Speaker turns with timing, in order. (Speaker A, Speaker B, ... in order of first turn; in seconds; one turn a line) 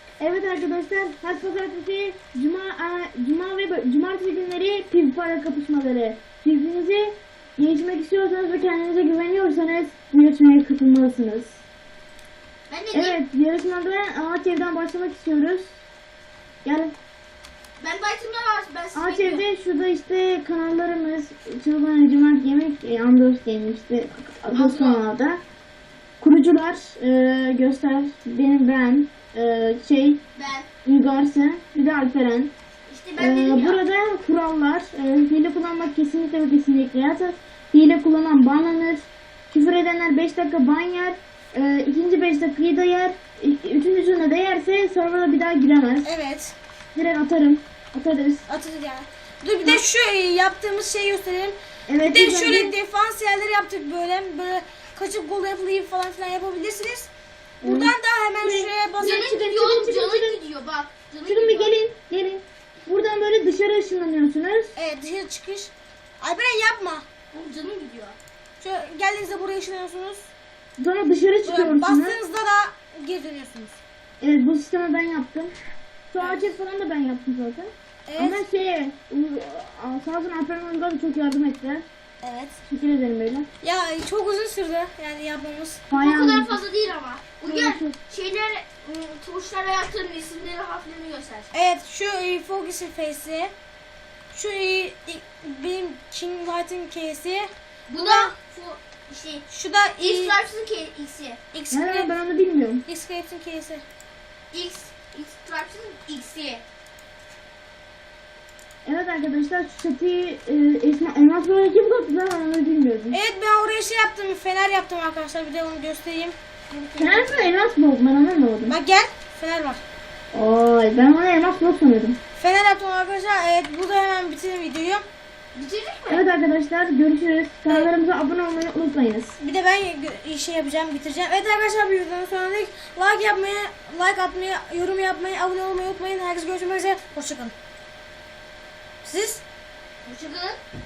Speaker A: 0.2-11.6
Speaker B: 12.7-13.2
Speaker A: 12.9-15.8
Speaker A: 16.6-16.9
Speaker B: 17.8-19.4
Speaker A: 18.9-25.4
Speaker B: 24.5-25.0
Speaker A: 26.2-30.2
Speaker B: 30.4-30.7
Speaker A: 30.9-32.5
Speaker B: 32.9-33.8
Speaker A: 33.2-46.1
Speaker C: 46.0-46.5
Speaker A: 47.0-48.5
Speaker C: 48.5-57.1
Speaker A: 51.9-52.7
Speaker C: 57.6-59.4
Speaker A: 57.6-60.4
Speaker B: 59.0-61.7
Speaker A: 61.3-64.7
Speaker C: 64.8-67.1
Speaker B: 67.3-68.2
Speaker C: 68.6-70.3
Speaker A: 70.8-72.2
Speaker C: 71.4-73.8
Speaker A: 74.2-75.5
Speaker A: 76.1-81.8
Speaker C: 76.2-76.5
Speaker C: 78.1-78.4
Speaker C: 82.2-82.6
Speaker A: 82.7-83.5
Speaker C: 83.6-85.8
Speaker A: 85.9-86.6
Speaker B: 85.9-91.5
Speaker A: 87.5-88.0
Speaker C: 91.5-93.5
Speaker C: 94.3-98.3
Speaker B: 97.9-99.4
Speaker C: 99.5-100.4
Speaker B: 100.0-101.4
Speaker C: 101.5-102.1
Speaker A: 101.7-102.8
Speaker C: 102.9-103.8
Speaker B: 104.5-106.6
Speaker A: 108.8-113.2
Speaker C: 113.1-116.4
Speaker B: 116.7-117.5
Speaker A: 117.0-118.8
Speaker C: 118.7-119.8
Speaker A: 120.3-122.2
Speaker C: 122.4-125.0
Speaker B: 125.5-126.3
Speaker A: 126.1-129.4
Speaker C: 129.4-137.5
Speaker C: 139.0-139.4
Speaker B: 140.1-140.6